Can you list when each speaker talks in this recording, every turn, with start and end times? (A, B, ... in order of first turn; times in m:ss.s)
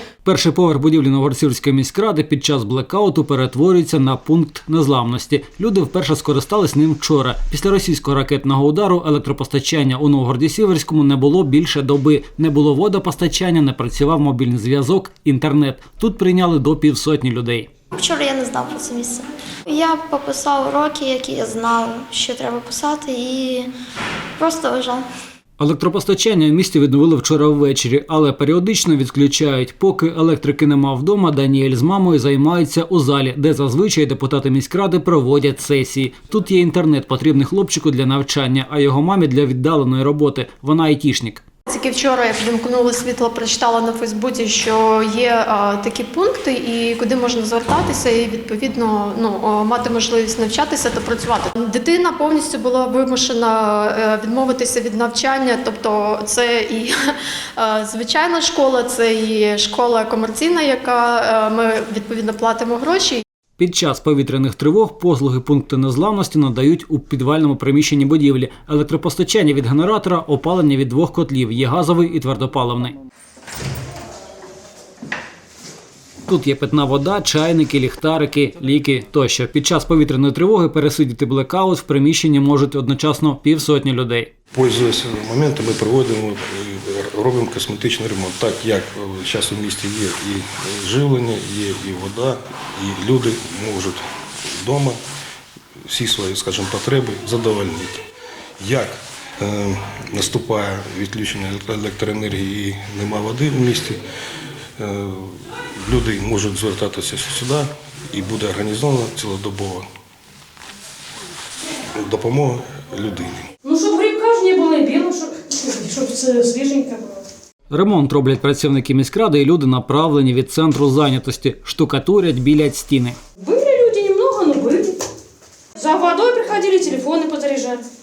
0:00.2-0:17.7 A
0:17.9-0:23.7 B
0:24.4-0:25.1 B
0:25.6-0:41.4 A
0:41.7-1:03.2 C
1:03.6-1:13.0 A
1:16.3-1:24.3 A
1:24.5-1:35.0 D
1:35.9-1:38.0 D
1:38.6-1:44.0 D
1:44.8-1:49.9 D
1:52.0-1:53.5 D
1:53.6-1:57.2 E
1:57.7-2:03.2 A
2:03.4-2:05.0 E
2:05.8-2:07.8 E